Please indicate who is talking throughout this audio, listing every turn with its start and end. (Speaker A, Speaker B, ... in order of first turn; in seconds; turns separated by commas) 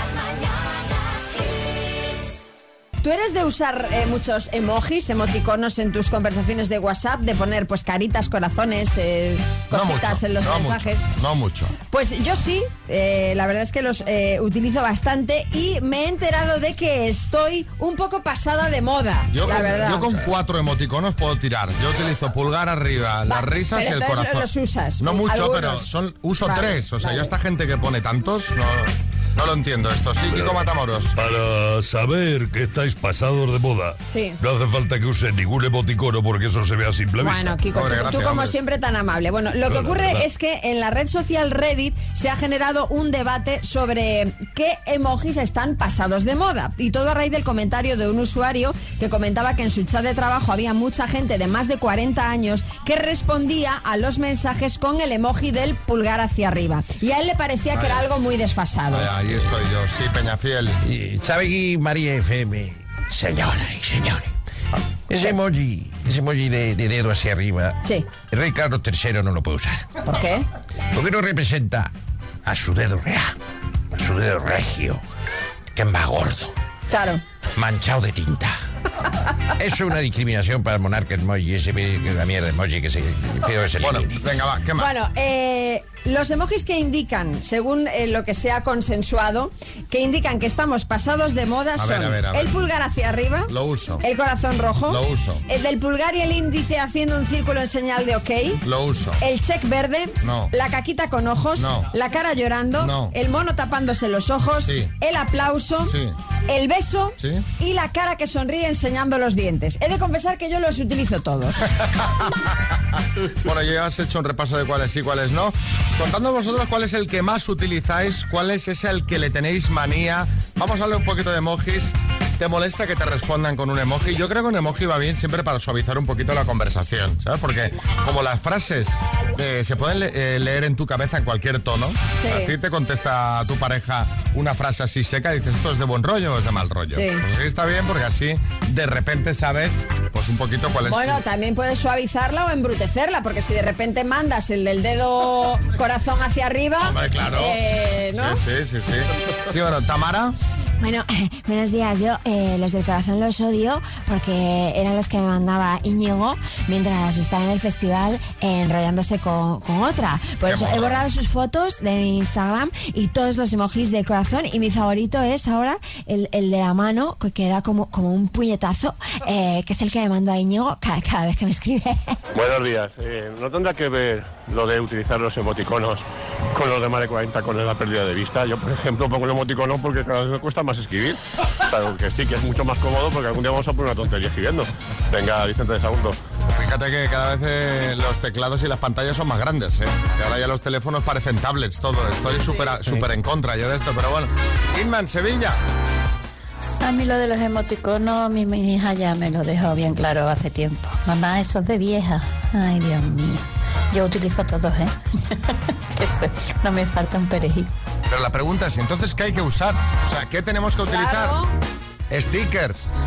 Speaker A: 3.0-11.1, Speaker B: 9.7-11.7, Speaker A: 11.9-20.1, Speaker B: 19.3-24.5, Speaker A: 23.3-25.9, Speaker B: 25.0-31.1, Speaker A: 26.4-27.3, Speaker C: 31.2-37.5, Speaker A: 34.1-34.4, Speaker A: 37.2-59.1, Speaker B: 37.7-38.6, Speaker C: 39.7-40.2, Speaker B: 57.7-58.0, Speaker B: 58.9-60.8, Speaker D: 60.8-64.3, Speaker D: 65.1-70.0, Speaker A: 70.1-70.5, Speaker D: 70.9-71.9, Speaker D: 72.5-73.4, Speaker D: 73.9-75.0, Speaker D: 75.8-76.5, Speaker A: 76.9-77.2, Speaker D: 77.6-78.5, Speaker D: 79.6-84.4, Speaker B: 83.8-85.0, Speaker A: 84.8-93.5, Speaker B: 91.8-92.5, Speaker B: 93.5-94.0, Speaker A: 94.0-98.6, Speaker B: 94.9-95.4, Speaker B: 98.6-99.2, Speaker A: 99.2-106.0, Speaker B: 100.2-100.5, Speaker B: 101.6-101.9, Speaker B: 102.8-103.1, Speaker B: 104.6-104.9, Speaker B: 105.9-106.2, Speaker A: 106.5-111.7, Speaker B: 107.2-107.5, Speaker B: 111.8-112.5, Speaker B: 113.4-141.2, Speaker A: 132.2-132.5, Speaker A: 136.9-137.2, Speaker A: 140.9-148.4, Speaker B: 146.8-147.6, Speaker B: 148.1-150.4, Speaker E: 150.8-171.9, Speaker A: 160.4-160.8, Speaker B: 160.5-161.0, Speaker F: 172.3-186.2, Speaker B: 186.5-195.6, Speaker G: 196.8-204.9, Speaker G: 206.0-207.7, Speaker B: 208.1-211.4, Speaker A: 210.9-211.5, Speaker B: 212.1-212.8